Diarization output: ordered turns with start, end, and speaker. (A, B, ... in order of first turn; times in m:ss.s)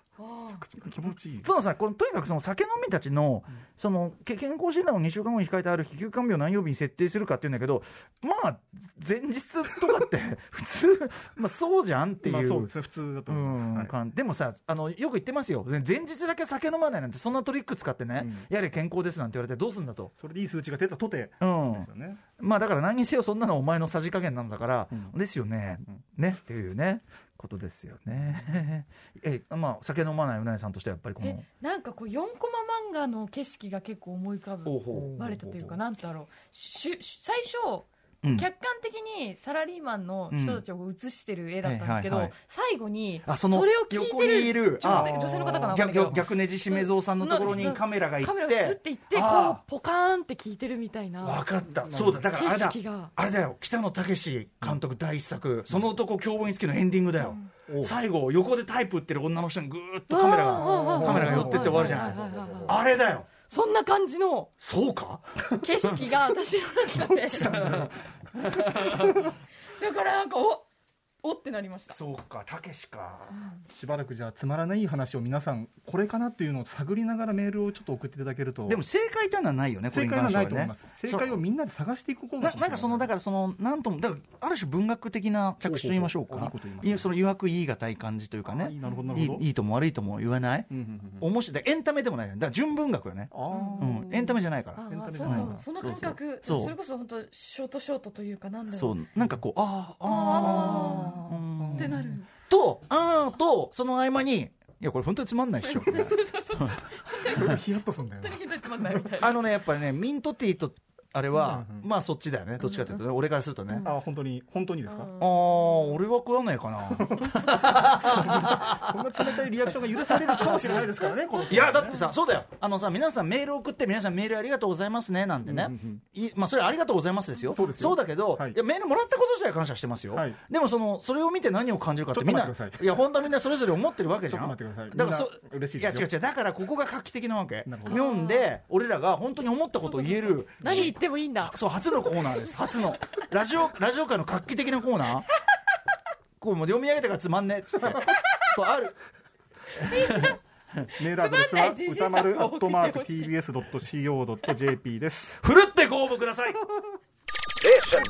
0:00.2-0:00.6 A
0:00.5-0:01.5 B
0:01.4-0:12.7 C
0:12.2-0:14.0 B
0:13.3-0:20.1 C
0:18.2-0:18.5 B
0:20.2-0:22.2 B
0:21.4-0:31.4 C
0:24.9-0:25.2 B
0:31.2-0:51.5 A
0:34.7-0:35.2 C
0:34.9-0:35.8 B
0:38.2-0:38.5 C
0:40.3-0:40.6 C
0:41.6-0:42.3 C
0:43.2-0:49.6 C
0:44.9-0:45.7 B
0:51.2-1:03.3 C
0:51.7-0:52.3 B
0:52.3-0:53.1 A
0:57.7-0:58.0 B
1:00.1-1:02.7 A
1:00.5-1:02.8 B
1:03.4-1:04.5 A
1:04.6-1:06.0 C
1:05.5-1:07.6 A
1:07.1-1:08.0 B
1:07.4-1:09.3 C
1:09.6-1:10.7 A
1:11.2-1:12.0 A
1:11.9-1:13.4 C
1:13.4-1:13.6 A
1:13.7-1:18.8 B
1:18.7-1:21.4 C
1:19.9-1:23.1 B
1:22.4-1:36.7 C
1:25.6-1:27.1 B
1:28.5-1:29.5 B
1:28.9-1:29.2 A
1:30.7-1:31.3 B
1:33.3-1:34.4 B
1:33.5-1:33.9 A
1:34.8-1:39.0 A
1:34.9-1:35.7 B
1:38.7-1:46.8 C
1:40.0-1:42.3 A
1:40.7-1:42.2 B
1:45.6-1:47.6 A
1:45.9-1:46.2 B
1:47.2-1:49.1 B
1:48.2-1:49.4 A
1:49.2-1:53.9 C
1:51.4-1:51.9 B
1:53.8-1:55.1 B
1:54.9-1:56.0 A
1:55.2-1:59.0 C
1:56.9-2:02.1 B
2:00.0-2:00.7 C
2:01.5-2:25.3 C
2:05.4-2:06.0 B
2:07.5-2:08.6 B
2:10.1-2:10.4 B
2:12.1-2:13.0 B
2:14.3-2:16.1 B
2:17.7-2:18.0 B
2:17.9-2:18.5 A
2:19.9-2:21.6 A
2:20.6-2:20.9 B
2:26.4-2:29.0 C
2:29.8-2:30.9 C
2:29.8-2:30.4 A
2:31.0-2:35.4 B
2:31.0-2:33.3 A
2:35.4-2:36.7 C